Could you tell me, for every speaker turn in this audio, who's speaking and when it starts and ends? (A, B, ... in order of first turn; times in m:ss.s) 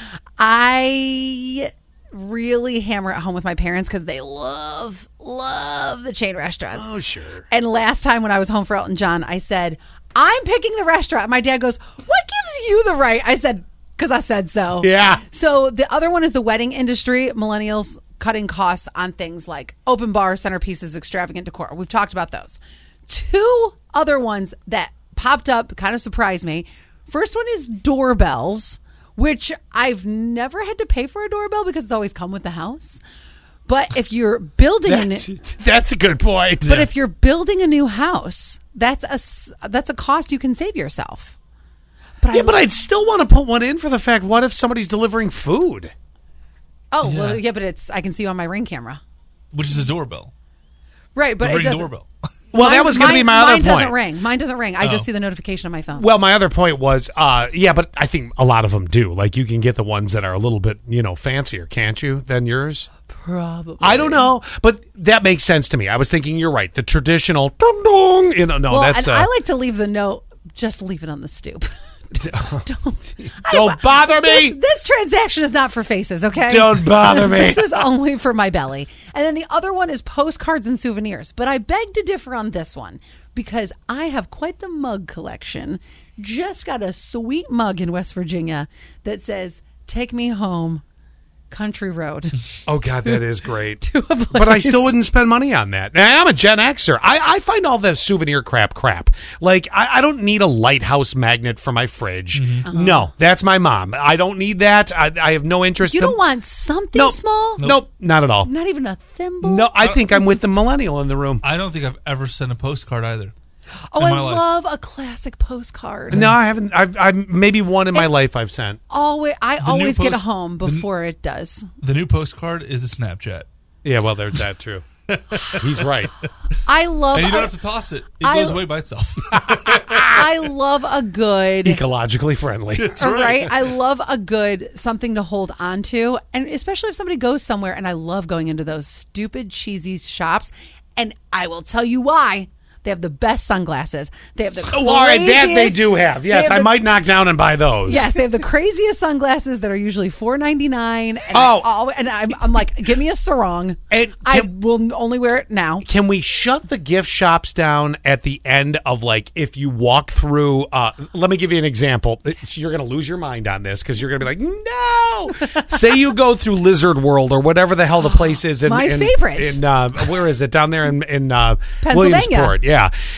0:00.4-0:06.9 A
0:06.8-0:07.4 B
0:07.5-0:33.0 A
0:14.8-0:15.2 B
0:33.7-0:35.3 A
0:34.8-0:36.9 B
0:36.6-0:41.4 A
0:42.2-0:42.6 A
0:42.3-0:45.9 B
0:46.9-0:49.0 A
0:47.0-0:47.4 C
0:49.5-0:50.3 C
0:51.1-0:51.9 A
0:51.4-0:52.1 C
0:52.5-0:53.9 B
0:52.6-0:56.1 A
0:54.8-0:55.0 C
0:56.0-1:02.9 B
1:03.1-1:04.3 A
1:03.8-1:09.3 B
1:08.7-1:30.8 A
1:12.1-1:12.7 B
1:13.2-1:14.6 B
1:16.5-1:17.8 B
1:31.5-1:32.5 A
1:32.6-1:46.2 B
1:33.8-1:34.9 A
1:42.3-1:42.6 C
1:42.6-1:43.1 A
1:45.8-1:47.6 A
1:46.9-1:48.5 B
1:48.4-1:49.7 A
1:49.4-1:51.4 B
1:51.4-1:53.3 C
1:53.9-1:56.3 A
1:54.0-1:54.4 C
1:56.1-1:58.8 B
1:58.9-2:01.7 A
1:59.6-2:00.8 C
2:01.8-2:03.4 C
2:03.8-2:04.8 B
2:05.1-2:05.7 C
2:05.6-2:06.1 B
2:06.6-2:07.5 A
2:07.1-2:10.1 C
2:08.2-2:08.6 A
2:09.9-2:11.8 A
2:11.6-2:13.3 B
2:12.8-2:13.5 C
2:13.0-2:26.7 A
2:24.7-2:28.1 B
2:27.8-2:35.8 A
2:31.3-2:31.7 B
2:33.9-2:34.5 B
2:35.8-2:52.9 B
2:48.0-2:49.6 A
2:51.8-2:52.6 A